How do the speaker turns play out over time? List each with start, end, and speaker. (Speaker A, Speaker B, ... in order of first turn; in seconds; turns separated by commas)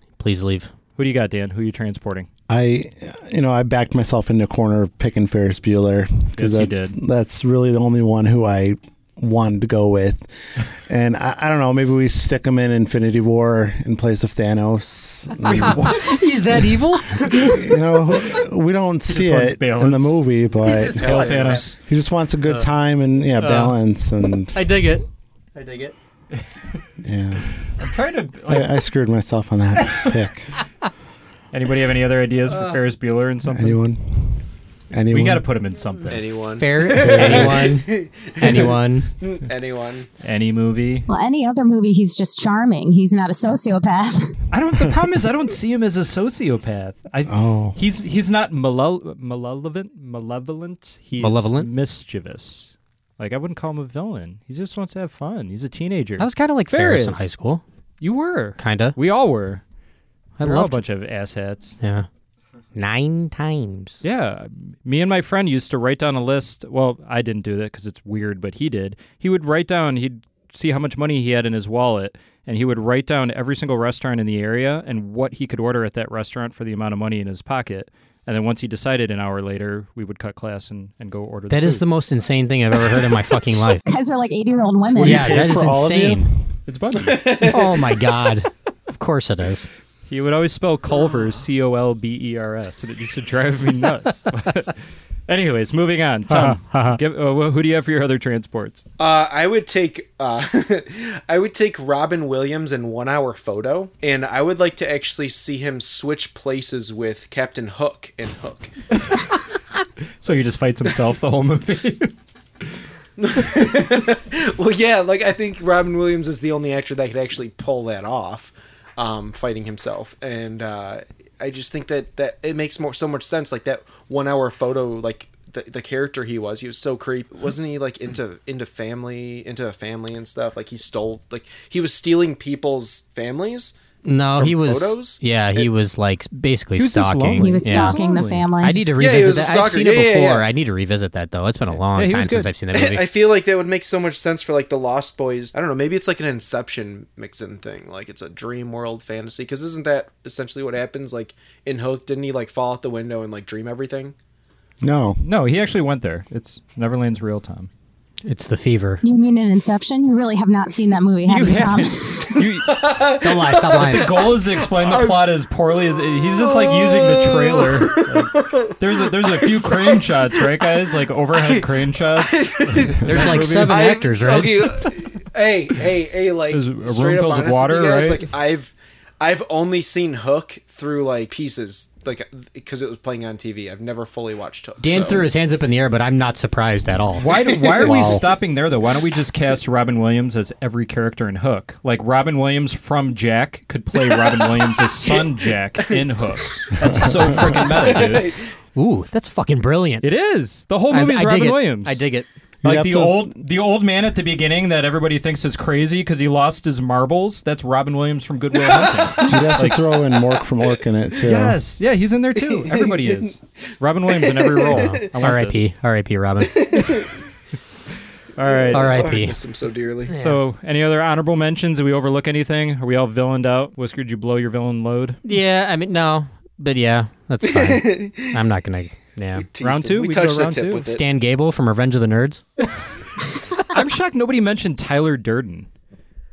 Speaker A: 0.2-0.7, Speaker B: 0.9-2.3, Speaker C: 2.5-16.6, Speaker B: 6.3-7.0, Speaker A: 15.5-17.7, Speaker C: 17.2-24.6, Speaker B: 19.1-21.8, Speaker A: 20.7-21.5, Speaker D: 21.0-21.7, Speaker A: 23.4-23.7, Speaker A: 24.5-25.9, Speaker C: 27.0-27.5, Speaker B: 27.7-28.7, Speaker C: 28.5-30.5, Speaker B: 29.8-30.1, Speaker B: 31.5-33.8, Speaker C: 33.5-35.4, Speaker B: 35.1-36.2, Speaker D: 36.1-40.1, Speaker A: 36.6-39.1, Speaker C: 37.1-37.5, Speaker B: 40.2-41.1, Speaker E: 41.1-44.3, Speaker B: 44.5-57.3, Speaker C: 47.2-47.8, Speaker A: 51.2-51.7, Speaker A: 56.2-57.6, Speaker B: 58.0-59.6, Speaker A: 58.6-59.0, Speaker A: 60.4-60.8, Speaker B: 60.4-61.8, Speaker A: 61.8-62.1, Speaker A: 62.7-64.0, Speaker B: 64.0-81.8, Speaker A: 81.5-83.8, Speaker E: 83.8-85.7, Speaker A: 85.0-86.3, Speaker C: 85.0-86.4, Speaker B: 86.7-87.5, Speaker D: 87.0-87.8, Speaker A: 87.4-89.7, Speaker B: 90.1-94.8, Speaker B: 95.3-98.8, Speaker A: 96.3-97.0, Speaker D: 99.0-108.7, Speaker B: 109.0-109.3, Speaker B: 110.2-112.1, Speaker D: 113.2-133.7, Speaker A: 134.0-138.0, Speaker D: 134.3-135.7, Speaker B: 136.8-138.5, Speaker E: 137.4-138.8, Speaker A: 138.6-143.0, Speaker D: 139.0-140.5, Speaker B: 141.9-142.5, Speaker D: 142.7-154.1, Speaker C: 154.8-155.2, Speaker B: 155.2-157.7, Speaker A: 158.2-159.0, Speaker E: 159.0-162.4, Speaker B: 161.2-163.0, Speaker D: 162.3-165.3, Speaker A: 163.2-164.1, Speaker B: 163.7-173.9, Speaker D: 166.2-170.4, Speaker D: 171.3-185.3, Speaker A: 173.0-174.6, Speaker B: 176.5-178.3, Speaker A: 184.8-187.3, Speaker B: 187.2-198.3, Speaker D: 187.5-188.2, Speaker C: 187.8-188.3, Speaker D: 194.1-195.3, Speaker D: 197.3-198.4, Speaker A: 198.7-200.1, Speaker B: 200.0-202.0, Speaker A: 200.9-202.3, Speaker C: 202.6-203.3, Speaker B: 202.6-209.8, Speaker D: 208.7-209.3, Speaker C: 209.2-211.6, Speaker B: 211.2-215.6, Speaker D: 214.2-214.9, Speaker A: 214.7-216.8, Speaker D: 216.6-217.1, Speaker B: 218.3-219.1, Speaker D: 218.4-220.1, Speaker A: 218.7-219.4, Speaker A: 220.1-220.4, Speaker B: 220.1-225.2, Speaker A: 225.2-229.5, Speaker D: 227.4-228.4, Speaker D: 229.4-231.0, Speaker B: 229.6-230.8, Speaker A: 230.8-232.4, Speaker B: 233.7-235.7